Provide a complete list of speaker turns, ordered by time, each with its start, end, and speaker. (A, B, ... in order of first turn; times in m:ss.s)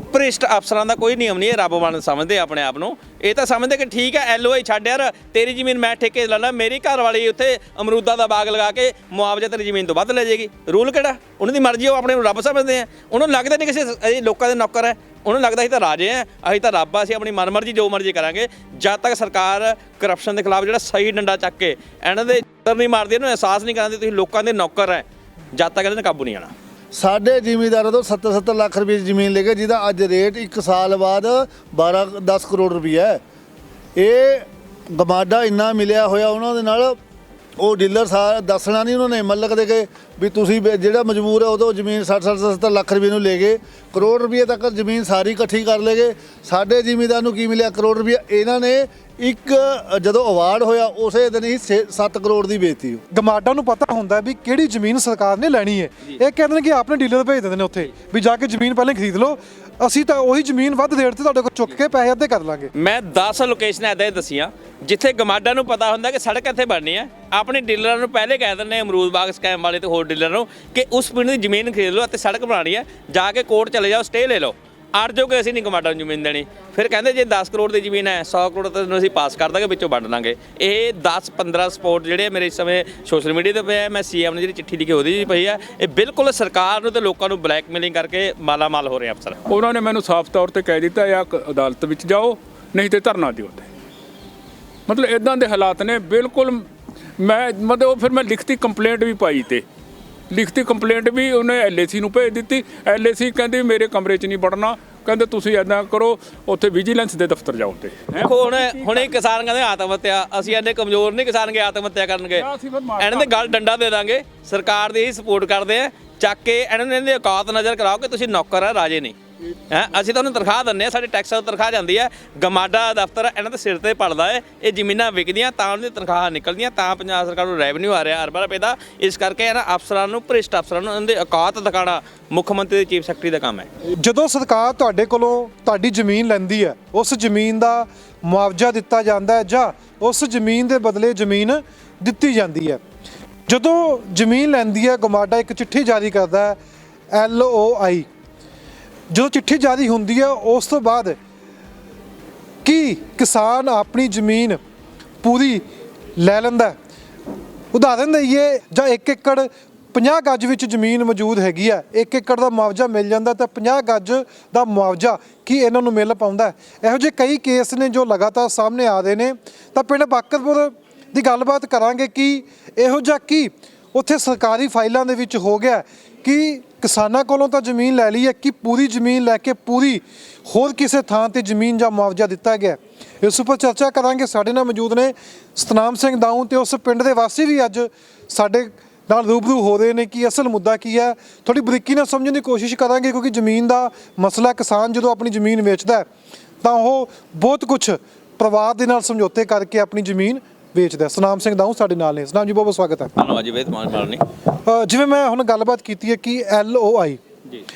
0:00.1-0:25.0 A
0:25.6-0:26.5 A
0:27.0-0:33.2 B
0:34.0-0:37.0 B
0:37.6-0:53.0 B
0:53.1-1:02.7 C
1:02.7-1:29.4 A
1:29.5-1:33.7 D
1:34.9-1:36.7 D
1:37.2-1:39.6 D
1:40.3-1:49.2 D
1:48.2-1:52.5 A
1:52.4-1:53.4 D
1:53.0-1:59.2 A
1:59.7-2:13.7 A
2:14.0-2:22.8 C
2:23.5-2:26.6 C
2:27.1-2:28.1 C
2:29.1-2:31.2 C
2:32.6-2:34.6 C
2:35.2-2:35.6 C
2:36.2-2:36.8 C
2:37.7-3:16.1 C
3:16.6-3:23.1 C
3:23.2-3:24.2 A
3:24.7-3:27.2 C